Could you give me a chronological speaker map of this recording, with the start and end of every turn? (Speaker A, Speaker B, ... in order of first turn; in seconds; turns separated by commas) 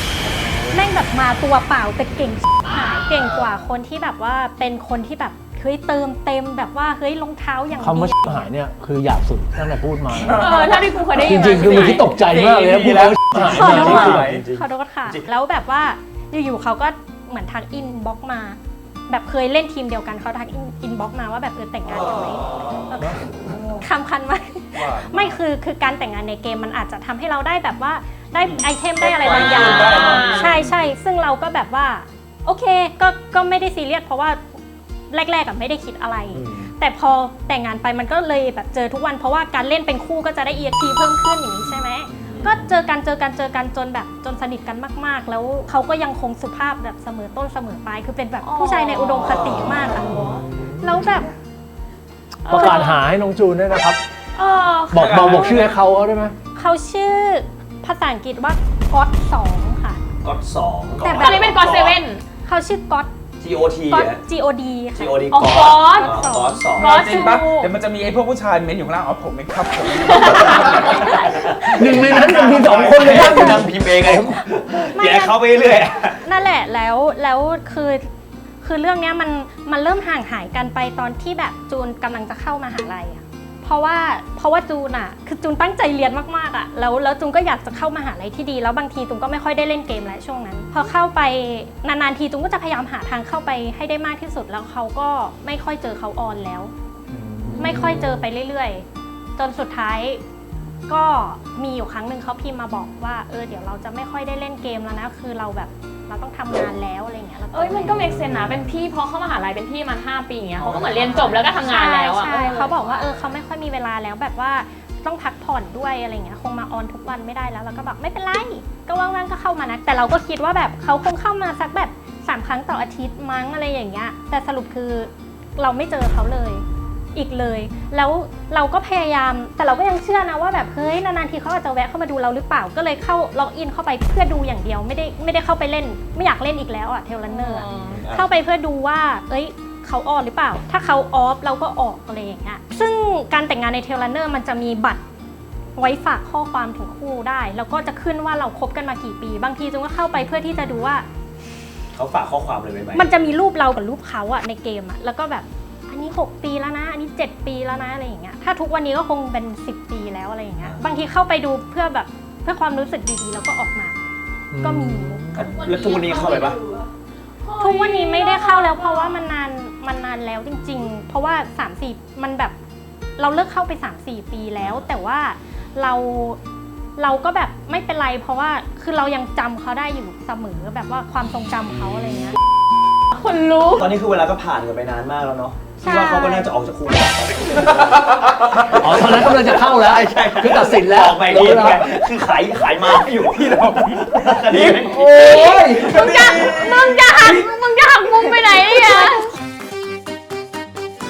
Speaker A: 0.7-8.5, Speaker B: 7.8-10.5, Speaker C: 10.2-10.9, Speaker D: 10.3-12.1, Speaker B: 11.2-14.4, Speaker C: 11.6-14.4, Speaker E: 13.4-15.3, Speaker A: 13.5-18.6, Speaker A: 19.1-34.4, Speaker C: 23.6-23.8, Speaker C: 24.8-25.4, Speaker C: 28.4-30.6, Speaker D: 29.3-30.5, Speaker E: 29.4-30.8, Speaker A: 35.1-50.2, Speaker E: 36.3-36.7, Speaker E: 42.1-42.7, Speaker D: 48.4-49.4, Speaker E: 50.1-50.4, Speaker B: 50.2-50.8, Speaker A: 50.8-51.3, Speaker D: 52.5-53.1, Speaker B: 52.5-54.0, Speaker D: 54.4-55.5, Speaker B: 54.9-56.4, Speaker C: 54.9-55.7, Speaker A: 56.5-60.0, Speaker E: 60.2-62.0, Speaker A: 61.0-61.5, Speaker D: 61.1-62.2, Speaker A: 62.5-63.1, Speaker E: 63.4-64.2, Speaker A: 63.9-65.2, Speaker E: 65.0-67.2, Speaker D: 65.3-66.1, Speaker A: 65.8-67.3, Speaker C: 66.8-71.0, Speaker D: 66.8-67.8, Speaker D: 70.1-71.4, Speaker E: 71.0-76.2, Speaker B: 71.6-73.7, Speaker C: 72.1-73.0, Speaker A: 73.1-73.6, Speaker A: 74.9-75.4, Speaker A: 76.2-78.1, Speaker A: 78.6-96.7, Speaker B: 97.1-98.2, Speaker A: 97.6-98.8, Speaker D: 97.6-97.9, Speaker A: 99.4-100.2, Speaker A: 100.9-108.2, Speaker D: 107.5-113.1, Speaker E: 110.6-111.4, Speaker A: 111.6-126.6, Speaker A: 127.2-145.0, Speaker D: 137.2-138.0, Speaker E: 137.9-138.3, Speaker A: 145.8-151.1, Speaker E: 151.9-153.1, Speaker A: 152.9-164.0, Speaker B: 164.5-165.6, Speaker A: 164.6-165.3, Speaker E: 165.3-166.6, Speaker D: 165.4-166.9, Speaker D: 167.4-169.3, Speaker A: 167.6-172.6, Speaker A: 173.2-176.4, Speaker A: 177.0-182.4, Speaker D: 183.1-183.9, Speaker E: 183.7-196.6, Speaker A: 185.8-186.5, Speaker B: 188.8-191.9, Speaker C: 193.0-194.1, Speaker B: 194.7-196.1, Speaker D: 194.7-199.3